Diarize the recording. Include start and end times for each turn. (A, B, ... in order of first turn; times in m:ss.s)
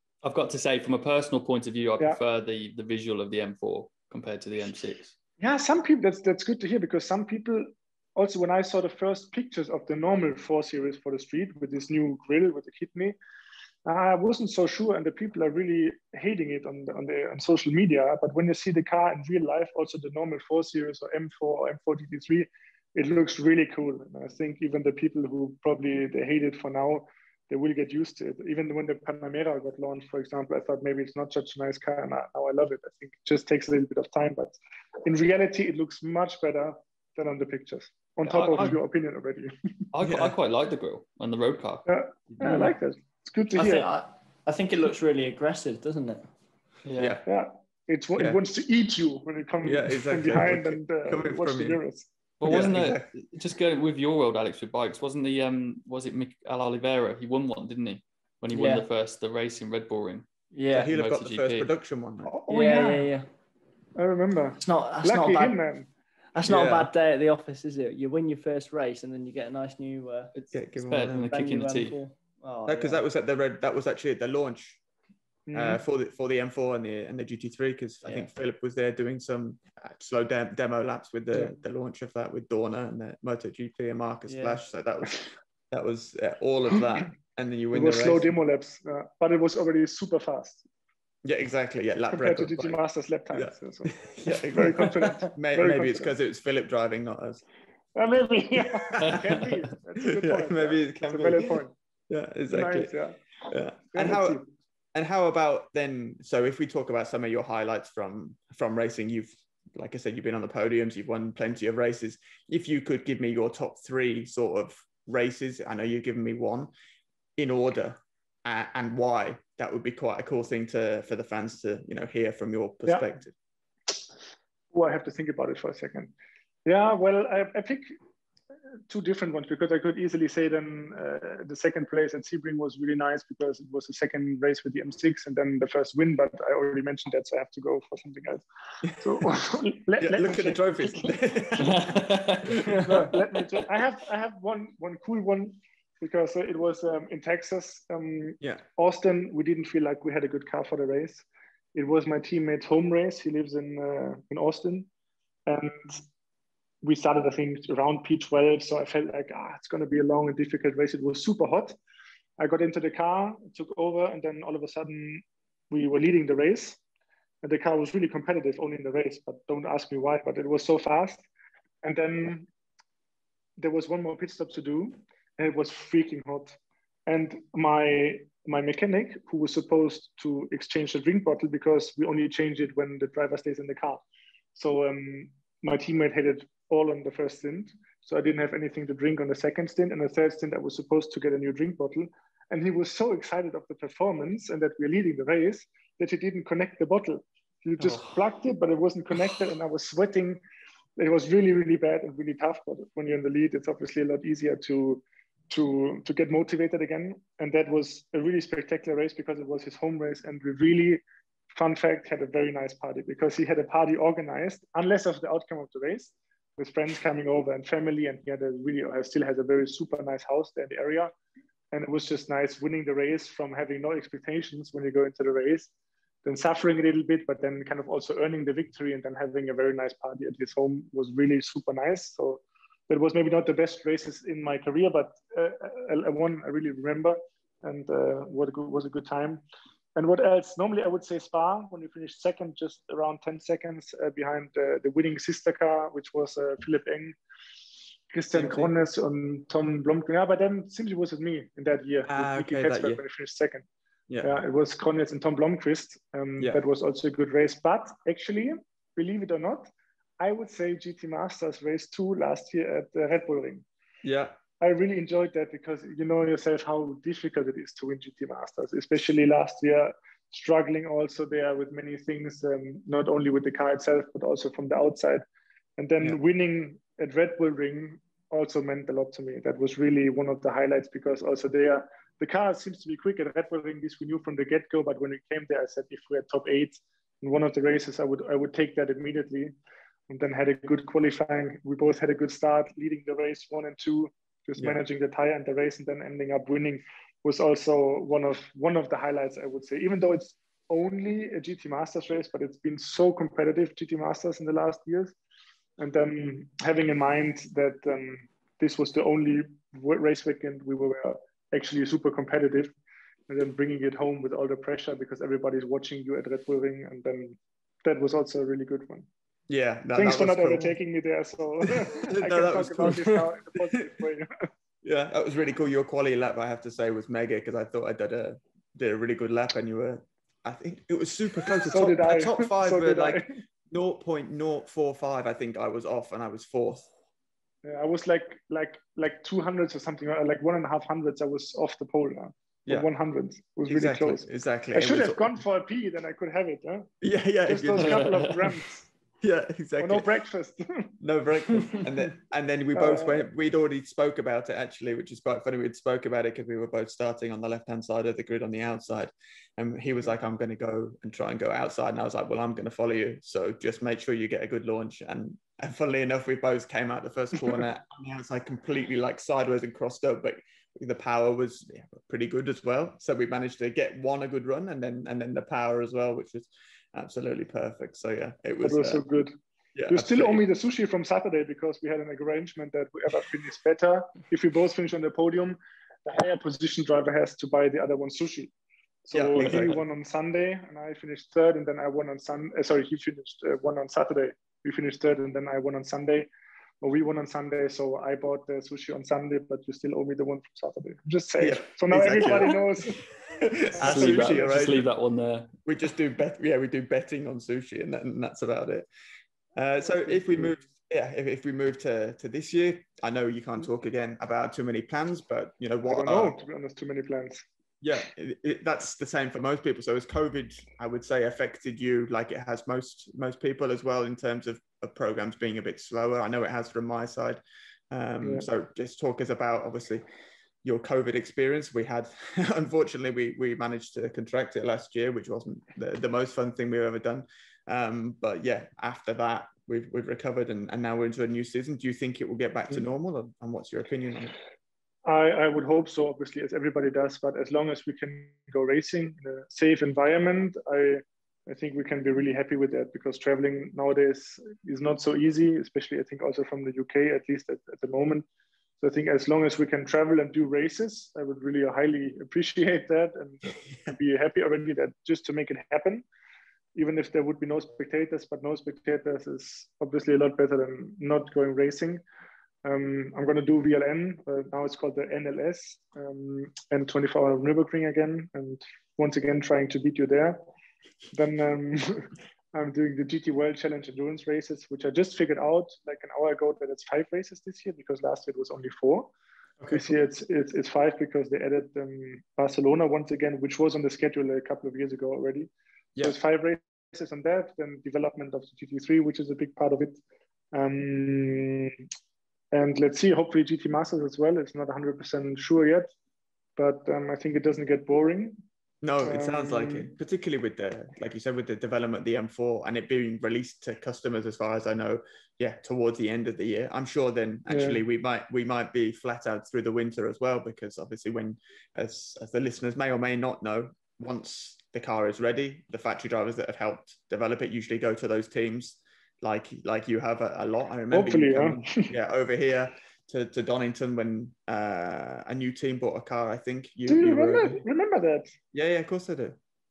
0:00.2-0:05.1 A
0:05.4-0:13.2 B
0:13.8-0:39.5 B
0:38.2-0:38.8 A
0:39.9-0:41.8 A
0:40.0-0:40.3 C
0:41.8-0:43.9 B
0:43.5-0:46.3 D
0:46.8-0:47.2 A
0:47.0-0:47.2 C
0:47.2-0:52.1 B
0:49.6-0:51.8 C
0:52.4-1:01.7 A
0:52.4-0:53.1 C
0:58.5-0:58.8 D
1:00.5-1:00.9 D
1:00.7-1:02.3 C
1:02.2-1:03.1 B
1:02.5-1:03.3 D
1:03.9-1:05.9 B
1:04.6-1:05.6 D
1:06.3-1:10.3 D
1:06.4-1:06.9 C
1:10.3-1:12.0 A
1:10.5-1:11.3 C
1:11.2-1:13.0 D
1:12.6-1:14.8 C
1:15.5-1:15.8 B
1:15.5-1:28.3 C
1:27.7-1:30.6 B
1:31.2-1:32.8 C
1:32.1-1:36.1 B
1:33.3-1:37.4 C
1:37.9-1:41.7 B
1:38.7-1:39.3 C
1:40.0-1:42.9 C
1:42.5-1:43.2 B
1:43.5-1:44.4 C
1:43.9-1:44.5 B
1:44.9-1:56.7 C
1:57.4-2:03.3 C
2:04.7-2:06.1 B
2:06.6-2:07.9 B
2:08.9-2:21.1 B
2:20.0-2:23.2 C
2:21.6-2:22.6 A
2:22.7-2:34.9 B
2:35.5-2:36.0 B
2:36.8-2:41.8 B
2:42.4-2:46.8 B
2:47.4-2:51.2 B
2:51.8-2:52.5 B
2:53.6-3:04.0 B
3:04.5-3:20.4 B
3:21.0-3:41.1 B
3:41.7-3:45.7 B
3:46.2-3:59.4 B
4:00.0-4:07.2 B
4:08.1-4:13.6 B
4:08.3-4:08.7 C
4:12.0-4:13.0 C
4:14.2-4:23.6 B
4:24.0-4:24.3 C
4:24.6-4:35.2 B
4:35.8-4:49.5 B
4:50.1-5:05.1 B
5:05.8-5:12.7 B
5:13.3-5:19.1 B
5:19.5-5:20.8 C
5:19.9-5:24.5 B
5:21.7-5:23.8 C
5:24.8-5:36.9 C
5:31.6-5:33.4 B
5:37.6-5:46.9 B
5:43.7-5:45.4 C
5:47.0-5:48.3 C
5:47.5-5:48.9 B
5:47.7-5:48.6 A
5:49.2-5:50.1 C
5:49.8-5:50.9 B
5:51.0-6:19.0 C
5:52.7-5:53.2 B
6:18.6-6:19.3 B
6:19.7-6:20.4 C
6:19.9-6:28.5 B
6:29.0-6:36.3 B
6:29.1-6:29.8 C
6:36.8-6:43.0 B
6:41.4-6:42.6 C
6:43.3-6:44.8 C
6:43.8-6:45.5 A
6:43.8-6:44.4 B
6:45.6-6:48.9 C
6:49.6-6:56.3 C
6:55.9-6:57.4 B
6:57.8-7:10.0 C
7:08.2-7:08.5 B
7:10.6-7:24.3 C
7:25.0-7:38.2 B
7:38.8-7:46.0 B
7:46.7-7:52.0 B
7:52.6-8:00.4 B
8:01.1-8:09.1 B
8:09.6-8:09.9 C
8:09.7-8:15.5 B
8:16.0-8:20.0 B
8:20.5-8:21.8 B
8:22.5-8:25.9 B
8:26.6-8:28.4 B
8:28.8-8:57.6 C
8:29.0-8:29.9 B
8:37.5-8:37.8 B
8:50.9-8:51.9 B
8:56.9-8:58.3 B
8:58.5-8:59.4 C